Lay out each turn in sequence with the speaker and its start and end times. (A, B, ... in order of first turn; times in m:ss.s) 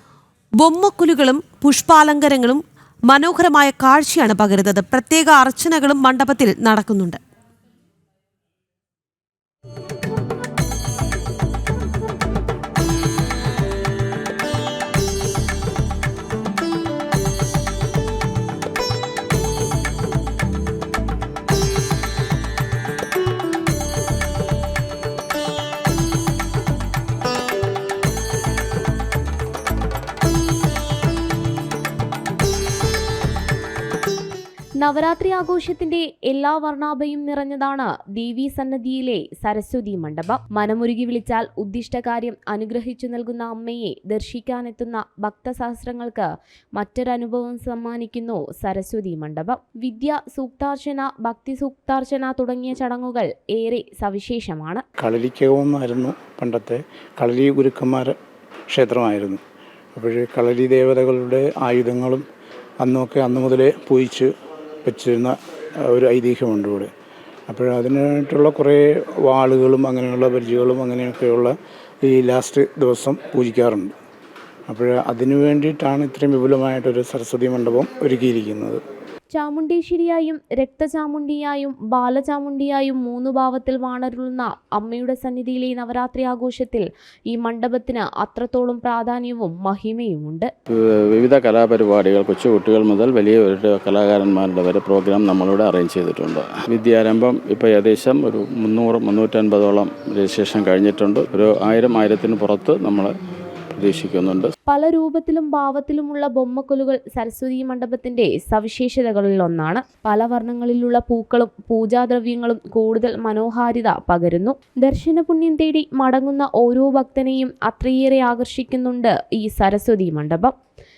0:00.6-0:07.2 A
0:34.8-0:54.8 B
0:55.0-0:58.1 C
0:58.7-0:59.4 C
0:59.9-1:02.2 C
1:02.8-1:04.3 C
1:04.8-1:06.9 C
1:07.5-1:13.9 C
1:14.7-1:18.8 C
1:19.3-1:30.5 B
1:30.7-1:43.2 D
1:43.8-1:44.5 D
1:44.6-2:00.5 B